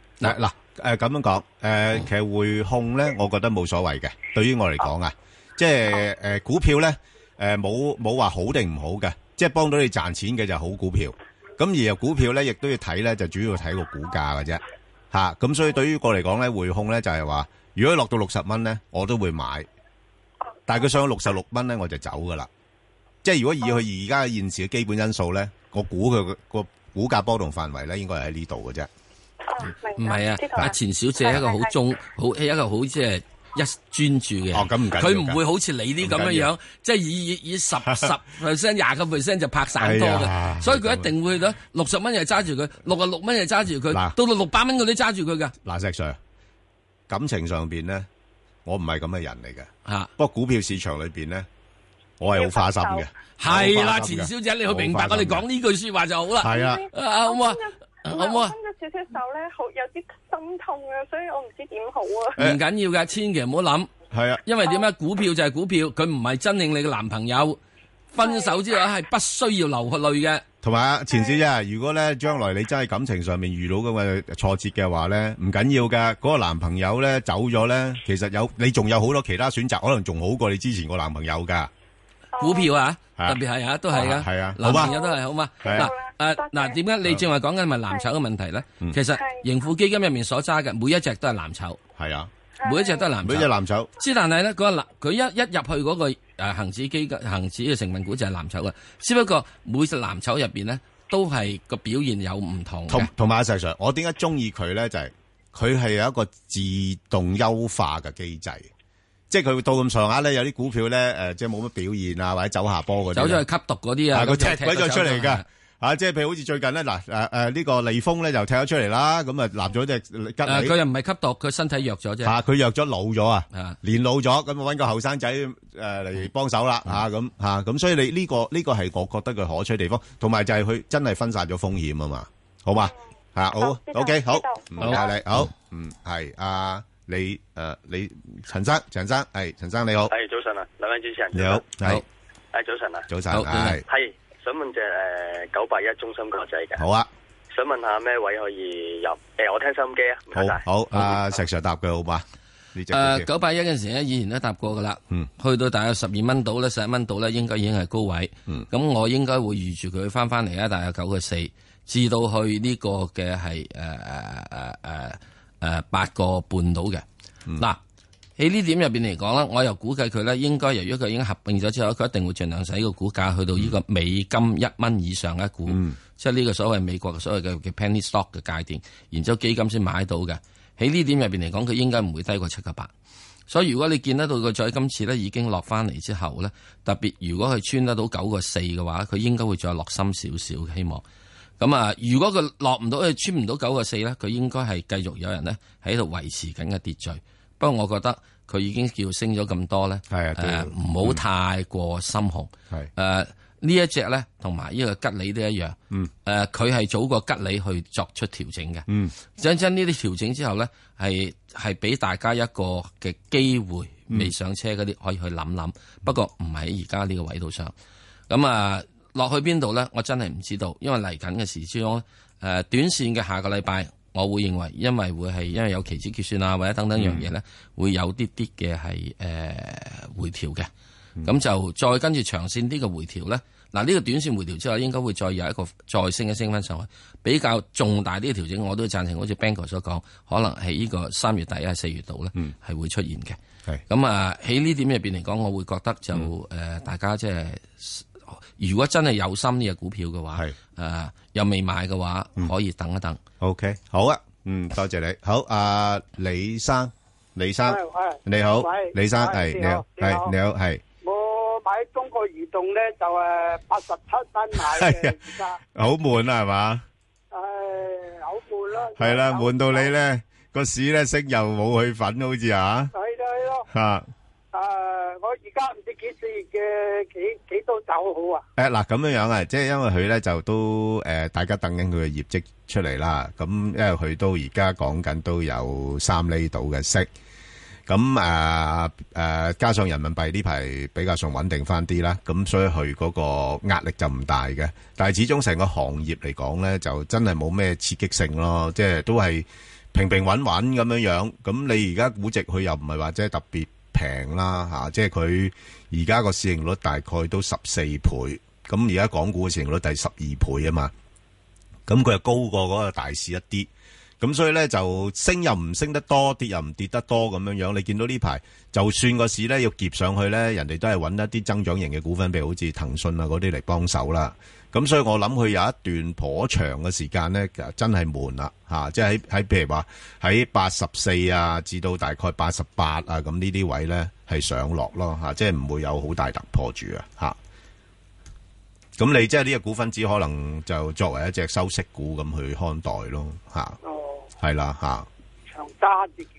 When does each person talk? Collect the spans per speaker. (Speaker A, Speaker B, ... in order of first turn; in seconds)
Speaker A: 0.2-19.7, 20.7-22.5, 23.2-28.9, 34.5-35.4, 36.0-36.5, 37.9-38.1, 39.8-41.1, 43.9-44.1, 45.6-46.2, 47.1-48.1, 48.6-51.5, 52.2-55.5, 56.4-56.9, 64.1-64.4, 70.6-81.7, 83.9-84.9, 85.6-85.9, 92.0-92.3, 93.2-93.9, 102.9-108.7, 109.3-113.4, 114.1-120.8, 122.2-140.1, 141.3-142.0, 143.1-143.8, 146.8-147.1, 150.3-153.3, 175.7-176.0, 200.1-201.2, 208.9-209.1, 227.0-227.3, 253.4-260.8, 264.6-265.2, 265.7-266.9, 268.9-272.9, 273.7-274.1, 278.6-287.1, 287.9-310.9, 311.9-313.7, 314.2-337.4, 339.0-343.8, 344.4-345.1
Speaker B: 29.5-31.7, 52.2-53.1, 56.5-62.4, 68.2-68.5, 82.4-82.7, 84.7-86.8, 89.2-89.4, 92.6-93.1, 133.5-135.2
Speaker C: 30.0-45.5, 49.9-50.1, 53.4-58.5, 62.4-63.9, 64.4-67.6, 68.1-70.4, 82.4-91.8, 92.6-103.1, 113.1-115.4, 120.4-122.4, 134.8-135.5, 143.3-143.8, 152.9-167.1, 168.4-182.9, 183.5-191.0, 191.6-217.7, 218.3-230.7, 231.2-253.2
Speaker D: 140.1-141.6, 142.5-143.1, 143.9-146.8, 147.5-150.6
Speaker E: 257.6-260.3, 261.0-265.6, 267.3-269.9, 272.9-273.7, 274.5-278.4, 343.8-344.3, 345.5-346.3